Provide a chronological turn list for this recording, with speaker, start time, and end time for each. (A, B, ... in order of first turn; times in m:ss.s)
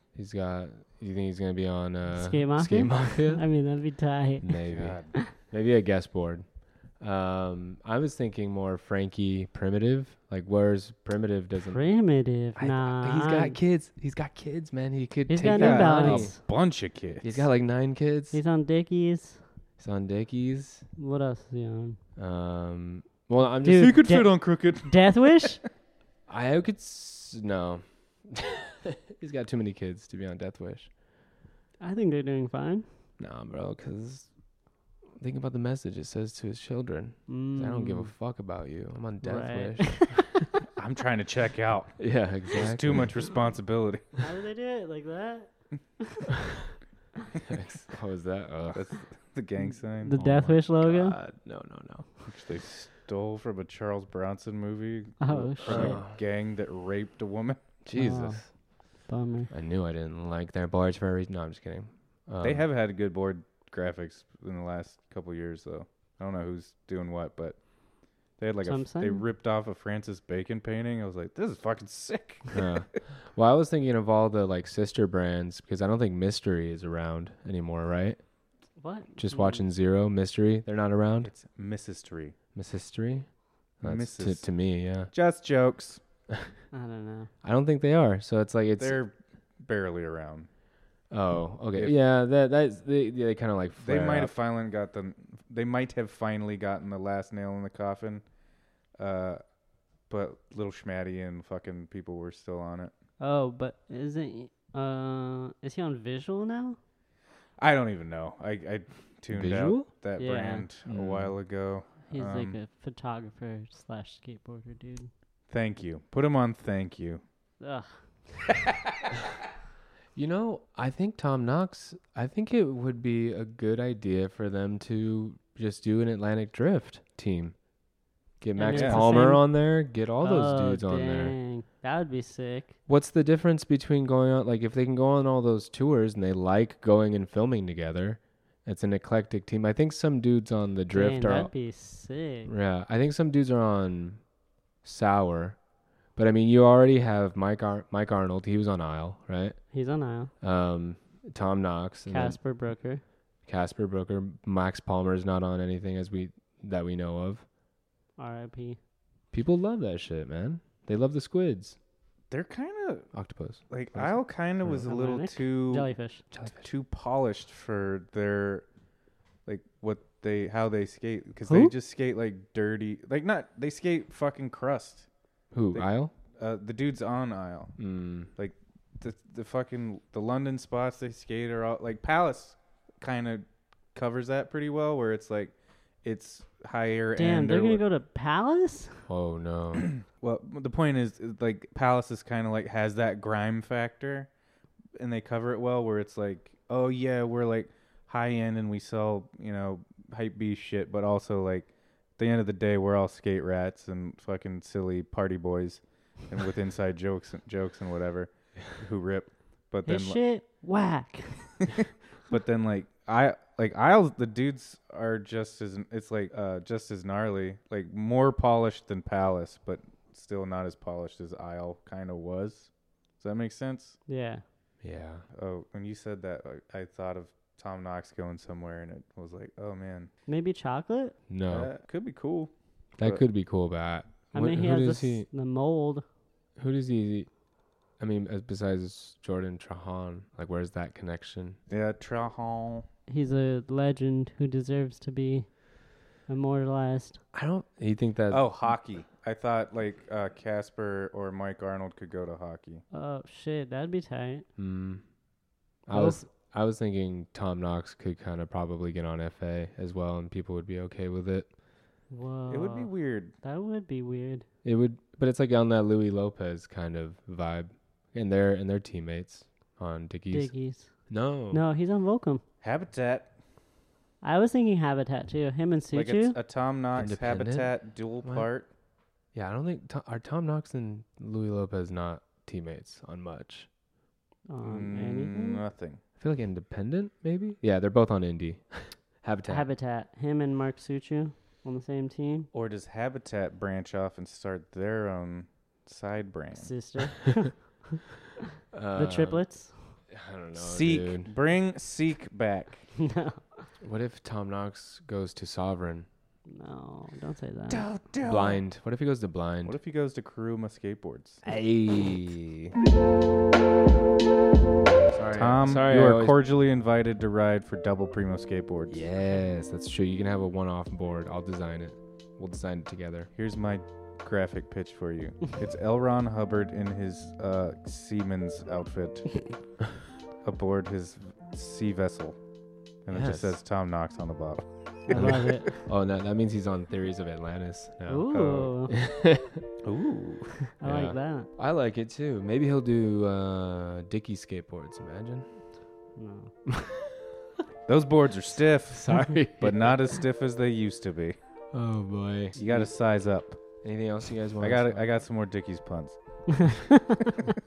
0:00.1-0:03.4 A
0:02.1-0:04.6 B
0:04.4-0:06.4 A
0:04.7-0:05.1 C
0:07.0-0:11.8 A
0:11.6-0:13.6 B
0:12.5-0:16.4 A
0:15.3-0:16.4 B
0:15.4-0:17.5 C
0:17.2-0:18.4 A
0:18.3-0:19.4 B
0:19.8-0:20.8 A
0:21.0-0:22.0 B
0:22.2-0:24.0 A
0:23.6-0:25.6 B
0:23.7-0:25.5 C
0:26.3-0:30.9 A
0:31.8-0:32.8 B
0:33.2-0:34.3 A
0:35.2-0:40.5 A
0:37.3-0:38.1 B
0:39.2-0:40.5 B
0:40.8-0:44.2 C
0:42.0-0:43.2 A
0:44.2-0:46.4 B
0:47.4-0:49.0 A
0:48.7-0:50.2 C
0:49.6-0:51.2 B
0:50.1-0:52.1 A
0:52.2-0:57.6 C
0:55.2-0:56.0 B
0:55.6-0:56.2 A
0:57.8-0:58.5 A
0:57.9-0:59.5 B
0:59.5-1:02.6 A
1:02.4-1:07.7 C
1:08.3-1:12.6 C
1:08.6-1:09.2 B
1:12.5-1:18.2 A
1:18.8-1:19.6 B
1:19.2-1:21.3 A
1:21.2-1:22.4 C
1:22.5-1:25.1 A
1:23.8-1:24.6 C
1:25.1-1:26.0 C
1:26.7-1:27.3 B
1:27.4-1:29.0 A
1:28.8-1:30.5 C
1:31.1-1:34.3 A
1:33.8-1:38.2 C
1:39.0-1:39.4 C
1:40.1-1:42.9 C
1:43.2-1:46.8 B
1:47.6-1:52.6 C
1:49.3-1:49.9 A
1:50.2-1:50.7 B
1:50.9-1:51.3 A
1:52.1-1:55.1 B
1:55.5-1:57.2 C
1:57.6-1:58.5 B
2:00.1-2:07.6 A
2:08.4-2:11.4 A
2:08.6-2:09.7 B
2:08.7-2:09.1 C
2:10.2-2:12.7 B
2:12.9-2:21.5 A
2:20.9-2:22.5 B
2:22.4-2:24.2 A
2:24.8-2:25.6 A
2:26.2-2:29.6 A
2:29.7-2:30.3 B
2:30.4-2:32.4 A
2:32.1-2:33.0 B
2:33.4-2:37.4 A
2:38.2-2:38.8 B
2:39.3-2:41.8 A
2:42.3-2:43.1 C
2:43.1-2:44.9 A
2:43.7-2:45.9 C
2:44.9-2:46.2 B
2:46.3-2:46.6 A
2:46.6-2:48.7 C
2:49.4-2:55.1 C
2:51.4-2:51.7 A
2:55.5-2:56.1 A
2:55.7-2:57.8 C
2:57.8-2:58.3 A
2:58.3-3:07.8 C
3:07.2-3:09.1 B
3:09.1-3:09.9 A
3:10.0-3:14.3 C
3:15.0-3:30.2 C
3:29.8-3:31.7 B
3:32.3-3:44.0 C
3:44.1-3:44.4 B
3:44.8-3:45.2 A
3:45.3-3:50.1 C
3:50.3-3:51.2 B
3:51.3-3:51.7 A
3:51.5-3:53.2 C
3:53.0-3:55.3 A
3:54.3-3:56.0 B
3:56.6-3:57.3 A
3:58.0-4:01.6 A
4:01.7-4:02.8 C
4:03.1-4:07.2 B
4:07.3-4:08.5 A
4:08.3-4:12.8 C
4:12.9-4:14.4 B
4:14.6-4:15.0 A
4:15.9-4:21.5 A
4:15.9-4:16.2 B
4:22.1-4:24.4 B
4:22.5-4:23.3 C
4:24.6-4:30.5 A
4:30.3-4:32.4 B
4:31.1-4:31.6 A
4:32.6-4:33.3 C
4:34.2-4:36.4 B
4:35.9-4:38.7 C
4:36.9-4:38.5 A
4:39.3-4:43.7 A
4:44.5-4:45.6 B
4:44.6-4:46.0 C
4:46.2-4:49.7 A
4:49.5-4:52.5 B
4:52.5-4:56.7 C
4:56.5-4:58.0 B
4:58.7-4:59.4 A
4:58.9-5:00.0 B
5:00.1-5:01.3 A
5:00.6-5:02.9 C
5:03.0-5:03.7 B
5:03.8-5:06.1 A
5:06.5-5:07.9 B
5:07.7-5:08.6 C
5:08.2-5:09.8 A
5:09.6-5:11.4 C
5:11.4-5:12.7 A
5:15.1-5:16.3 A
5:15.3-5:19.0 C
5:18.9-5:23.3 A
5:23.3-5:29.6 C
5:30.4-5:32.4 C
5:33.0-5:35.6 C
5:33.1-5:33.6 A
5:35.1-5:35.8 B
5:35.1-5:38.3 A
5:38.1-5:38.9 B
5:38.3-5:38.7 C
5:38.9-5:39.6 A
5:39.8-5:40.6 C
5:40.7-5:41.5 B
5:40.8-5:45.5 A
5:46.2-5:46.5 B
5:46.7-5:47.1 A
5:47.9-5:51.4 C
5:48.9-5:50.2 A
5:51.7-5:52.9 A
5:52.5-5:53.6 C
5:53.6-5:55.1 A
5:54.6-5:56.8 C
5:56.6-5:56.9 B